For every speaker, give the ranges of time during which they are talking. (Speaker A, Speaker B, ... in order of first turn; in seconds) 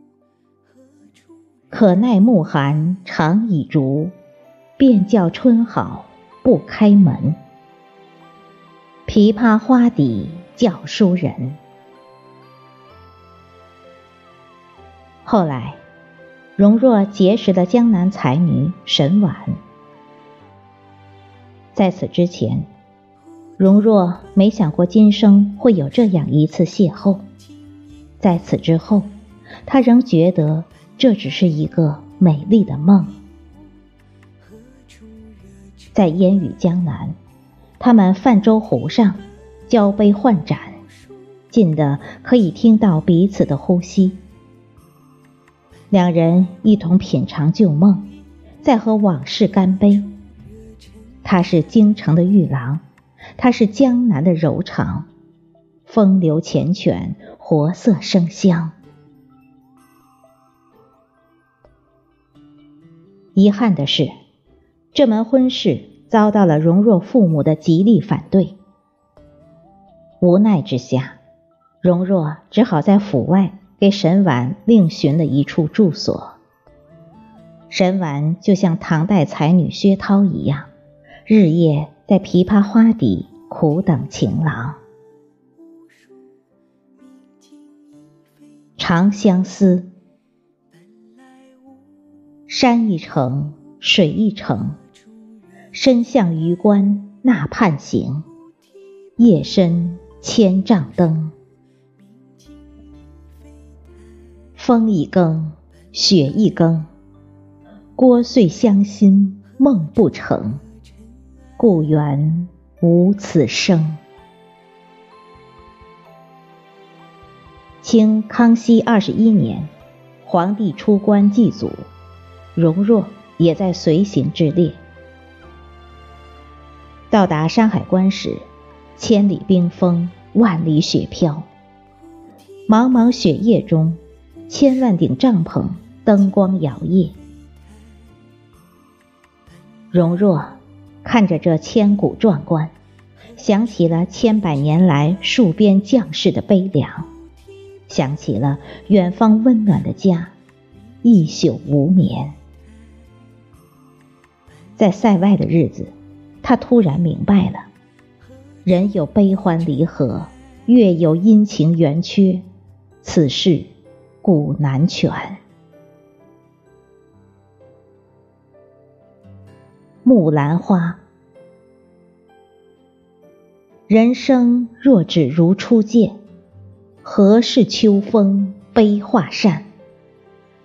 Speaker A: 1.7-4.1, 4.8-7.4, 9.1-11.6, 15.2-15.8, 16.6-19.6, 21.7-22.7, 23.6-27.2, 28.2-29.1, 29.7-33.2, 35.9-37.2, 37.8-40.8, 41.5-44.2, 45.9-48.1, 48.6-50.1, 51.2-52.8, 53.4-55.1, 55.9-58.7, 63.4-64.1, 64.9-68.5, 70.2-71.2, 71.8-76.4, 77.7-80.7, 81.3-84.8, 88.8-89.9, 92.5-94.8, 95.7-98.2, 99.2-101.3, 104.6-106.9, 108.0-110.6, 111.6-114.0, 117.8-119.7, 120.2-121.9, 122.5-124.8, 127.1-128.4, 129.0-131.5, 132.7-137.2, 139.9-142.7, 143.4-147.1, 147.9-150.3, 151.0-152.4, 154.8-157.7, 158.7-162.4, 163.0-163.7, 164.2-165.4, 170.1-171.0, 173.9-176.2, 177.0-179.7